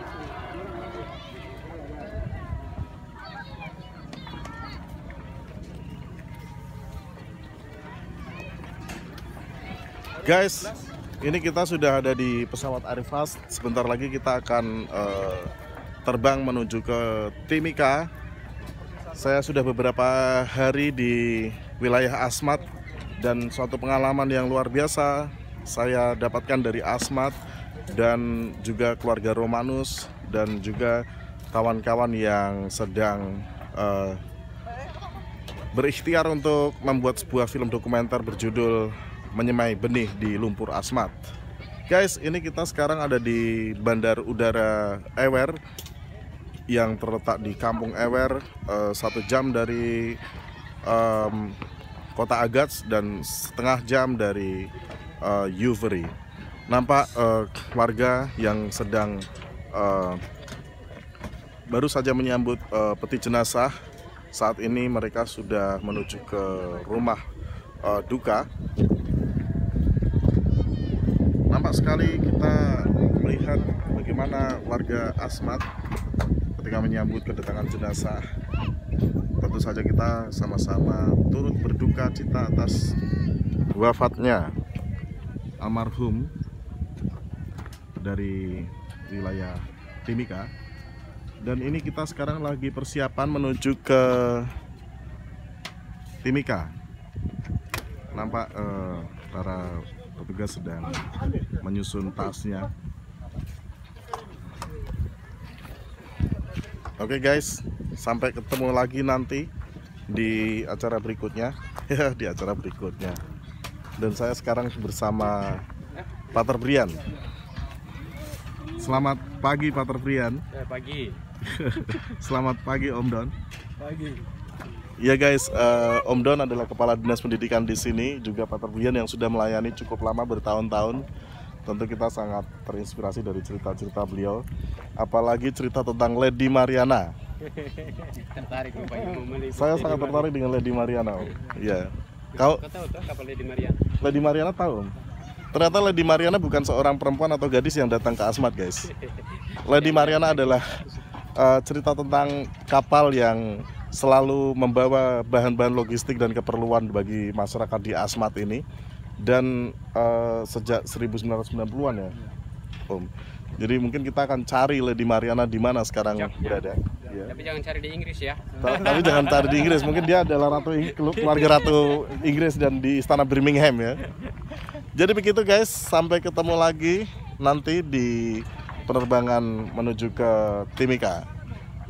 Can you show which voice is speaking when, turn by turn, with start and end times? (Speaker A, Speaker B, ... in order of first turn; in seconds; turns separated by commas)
Speaker A: 10.2-15.5, Speaker A: 16.1-18.1, Speaker A: 19.1-22.6, Speaker A: 23.2-27.4, Speaker A: 27.9-34.2, Speaker A: 35.7-41.2, Speaker A: 41.9-45.5, Speaker A: 46.7-50.2, Speaker A: 50.9-51.6, Speaker A: 52.1-54.7, Speaker A: 55.2-56.1, Speaker A: 56.7-59.2, Speaker A: 59.7-60.2, Speaker A: 61.7-63.7, Speaker A: 64.3-67.2, Speaker A: 67.8-68.5, Speaker A: 71.5-75.6, Speaker A: 76.6-78.2, Speaker A: 79.4-82.9, Speaker A: 83.7-84.5, Speaker A: 85.6-86.3, Speaker A: 88.0-90.5, Speaker A: 91.4-94.5, Speaker A: 96.2-96.7, Speaker A: 98.1-101.0, Speaker A: 101.6-102.7, Speaker A: 107.0-109.5, Speaker A: 110.1-113.2, Speaker A: 114.0-115.6, Speaker A: 116.3-117.0, Speaker A: 118.8-120.4, Speaker B: 120.5-121.2, Speaker A: 121.4-123.3, Speaker A: 125.0-131.0, Speaker A: 131.7-134.4, Speaker A: 135.0-137.1, Speaker B: 137.4-140.3, Speaker A: 139.5-142.6, Speaker B: 142.4-144.0, Speaker A: 144.0-144.9, Speaker A: 145.5-148.9, Speaker B: 149.0-150.7, Speaker A: 149.6-150.7, Speaker A: 151.4-158.6, Speaker A: 159.2-162.1, Speaker A: 162.9-167.4, Speaker B: 166.1-166.7, Speaker B: 167.3-169.8, Speaker A: 168.6-174.0, Speaker B: 171.0-172.0, Speaker A: 174.9-181.2